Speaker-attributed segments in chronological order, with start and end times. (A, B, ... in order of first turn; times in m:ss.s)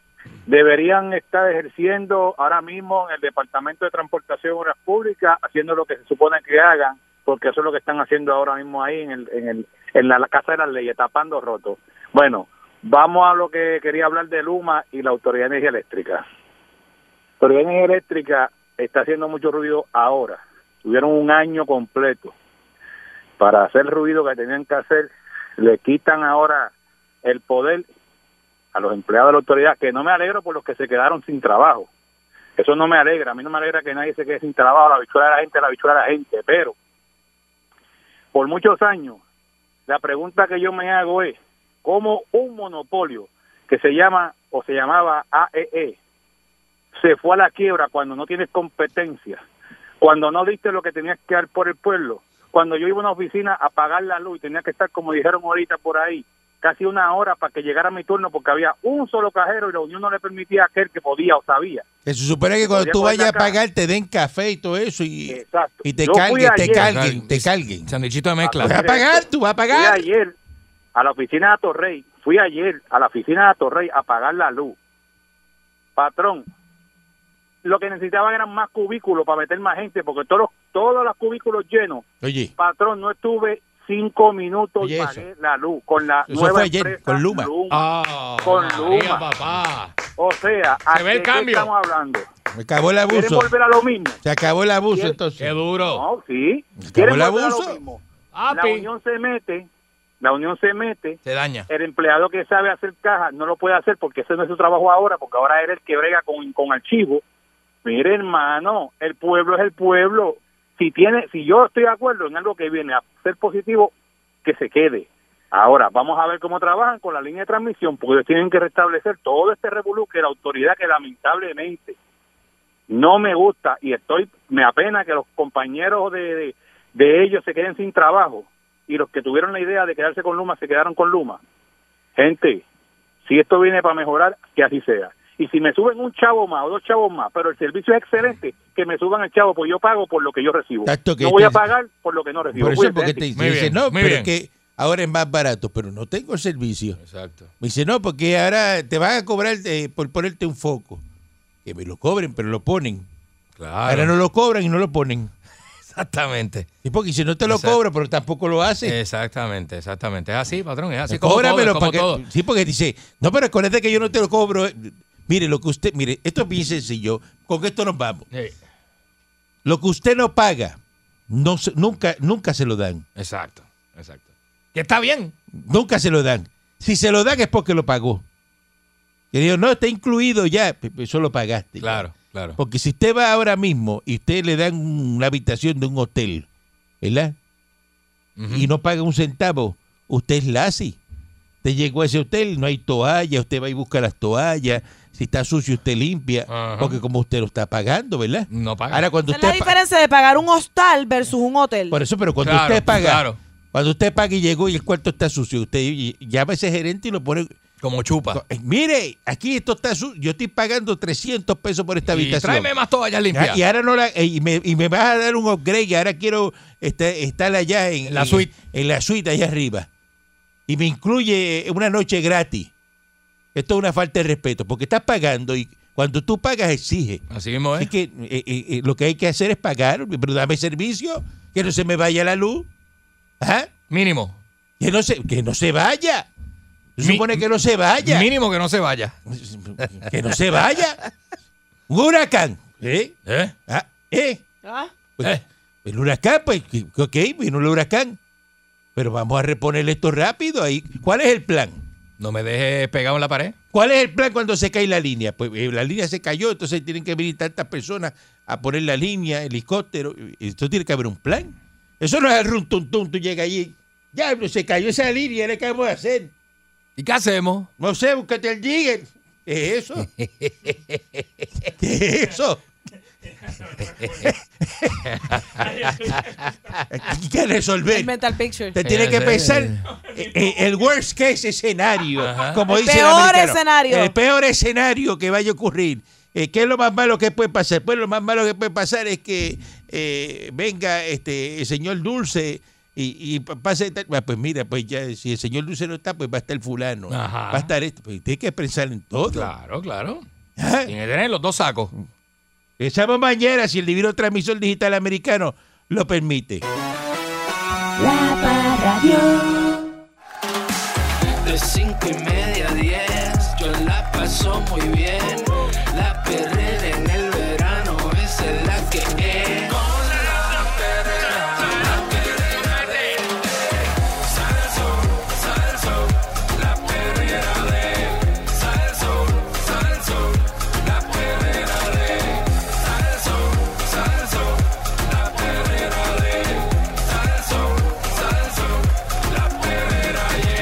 0:00.5-0:16.2 A
0:17.4-0:22.3 A
0:23.4-0:26.7 A
0:27.2-0:27.9 A
0:28.7-0:31.9 A
0:32.6-0:36.8 A
0:38.3-0:39.2 A
0:39.9-0:46.0 A
0:47.0-0:49.4 A
0:50.0-1:01.8 A
1:02.0-1:07.9 B
1:02.6-1:03.6 A
1:05.3-1:06.8 A
1:06.7-1:08.8 C
1:08.4-1:10.4 A
1:08.6-1:10.1 B
1:11.0-1:14.8 A
1:16.0-1:16.5 A
1:17.6-1:22.1 A
1:22.2-1:22.5 B
1:22.6-1:27.8 A
1:24.8-1:25.2 B
1:26.3-1:27.5 B
1:27.7-1:29.9 C
1:28.4-1:29.3 A
1:30.2-1:32.3 A
1:30.9-1:31.7 C
1:32.5-1:33.5 B
1:33.1-1:34.2 A
1:34.2-1:35.5 B
1:35.4-1:36.0 C
1:35.9-1:39.7 A
1:36.8-1:37.8 B
1:38.3-1:38.9 C
1:40.2-1:41.2 A
1:41.2-1:41.7 C
1:41.7-1:47.2 A
1:47.8-1:53.9 A
1:54.4-2:02.0 A
2:02.9-2:11.4 A
2:12.2-2:12.6 A
2:13.2-2:23.2 A
2:20.8-2:21.7 B
2:22.6-2:27.0 B
2:23.4-2:24.3 C
2:27.0-2:27.5 C
2:27.6-2:31.0 B
2:31.6-2:33.1 B
2:33.6-2:34.1 C
2:33.9-2:35.3 B
2:35.9-2:36.7 C
2:36.8-2:39.0 B
2:37.5-2:37.8 C
2:38.8-2:42.2 C
2:41.1-2:48.3 B
2:49.6-2:50.8 B
2:51.3-2:53.0 B
2:53.2-2:55.3 C
2:55.5-2:58.2 B
2:59.3-3:02.1 B
3:01.8-3:02.6 C
3:02.6-3:06.5 B
3:07.0-3:07.3 B
3:08.4-3:08.7 C
3:08.5-3:11.0 B
3:11.6-3:19.8 B
3:16.5-3:17.0 C
3:18.5-3:19.1 C
3:19.3-3:22.0 D
3:21.9-3:27.6 B
3:22.4-3:23.4 C
3:27.8-3:28.4 C
3:28.3-3:32.7 B
3:32.1-3:33.6 C
3:33.3-3:39.9 B
3:38.1-3:38.5 C
3:40.7-3:42.7 B
3:43.6-3:47.2 B
3:47.3-3:47.9 C
3:47.8-3:52.7 B
3:53.4-3:53.7 B
3:53.9-3:54.4 C
3:54.8-3:56.3 B
3:57.0-3:58.3 B
3:57.0-3:57.4 C
3:58.0-3:59.2 C
3:59.3-4:01.0 B
3:59.8-4:00.1 C
4:01.9-4:03.2 B
4:03.3-4:03.5 C
4:03.7-4:04.4 B
4:04.6-4:04.9 D
4:05.2-4:08.2 B
4:09.0-4:11.8 B
4:12.2-4:13.6 C
4:13.7-4:26.3 B
4:27.0-4:27.7 C
4:27.8-4:30.1 B
4:30.0-4:31.2 C
4:31.8-4:32.6 B
4:34.0-4:34.3 C
4:34.2-4:35.2 B
4:35.1-4:36.8 C
4:36.9-4:38.2 B
4:37.9-4:38.8 D
4:38.7-4:59.5 B
4:38.8-4:39.9 C
4:42.2-4:42.6 C
4:42.7-4:44.1 D
4:57.1-4:57.7 C
4:59.3-5:00.2 C
5:00.6-5:00.9 B
5:00.9-5:01.9 C
5:02.8-5:06.6 B
5:08.0-5:09.9 D
5:11.4-5:23.2 E
5:26.6-5:28.5 E
5:31.0-5:31.8 E
5:35.3-5:36.4 E
5:37.4-5:38.1 E
5:39.8-5:40.3 E